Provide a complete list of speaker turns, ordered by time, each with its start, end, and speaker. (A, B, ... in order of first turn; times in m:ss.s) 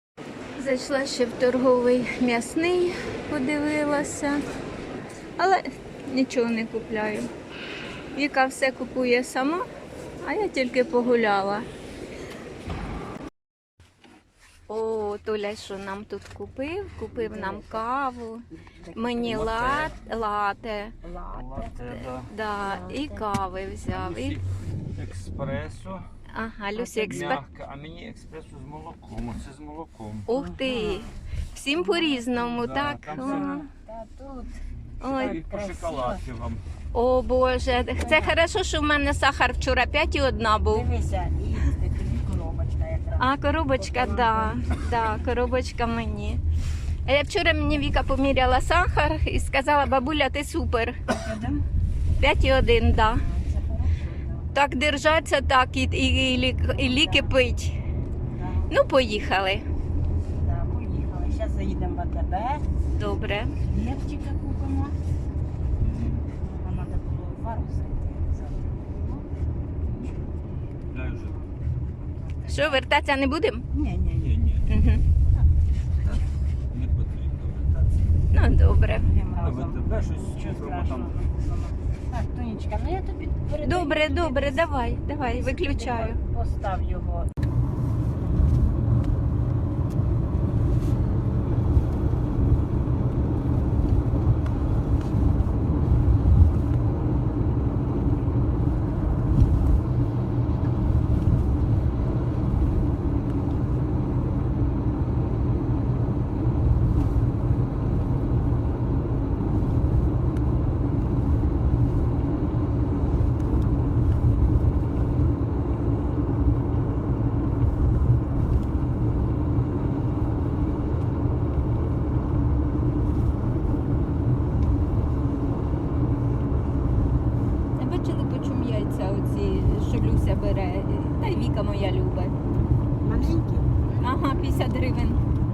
0:00.6-0:04.4 A
0:05.4-0:07.3 A
0:08.2-0:09.6 A
0:10.2-0:11.7 A
0:14.7-0:21.0 A
0:17.1-0:17.9 B
0:18.6-0:19.9 B
0:19.2-0:20.0 C
0:21.0-0:21.8 B
0:21.3-0:22.3 C
0:22.2-0:24.4 A
0:22.6-0:23.3 B
0:23.9-0:26.0 C
0:26.3-0:27.4 A
0:26.8-0:27.4 B
0:27.1-0:30.3 C
0:30.3-0:33.7 A
0:30.3-0:31.2 B
0:31.7-0:36.2 B
0:32.5-0:33.5 C
0:35.0-0:35.4 A
0:35.2-0:36.6 C
0:36.9-0:40.9 A
0:37.9-0:38.5 B
0:40.7-0:44.9 B
0:43.2-0:46.4 A
0:47.1-0:51.0 A
0:51.1-0:51.6 B
0:52.2-0:53.2 A
0:53.0-0:54.5 B
0:54.5-0:57.8 A
0:56.7-0:57.4 B
0:58.4-0:58.8 B
0:58.7-0:59.7 A
1:00.4-1:02.7 B
1:03.0-1:03.6 A
1:03.6-1:05.0 B
1:05.8-1:06.3 C
1:06.3-1:09.3 B
1:09.8-1:10.4 B
1:10.9-1:11.4 C
1:12.1-1:12.9 B
1:12.5-1:13.7 A
1:13.7-1:14.4 B
1:14.2-1:14.7 C
1:14.7-1:15.0 A
1:15.3-1:16.2 B
1:16.7-1:18.0 C
1:18.3-1:19.1 A
1:18.9-1:24.7 B
1:19.4-1:21.2 C
1:23.6-1:26.2 A
1:25.2-1:27.3 B
2:07.8-2:12.4 A
2:13.0-2:14.1 B
2:14.0-2:15.2 A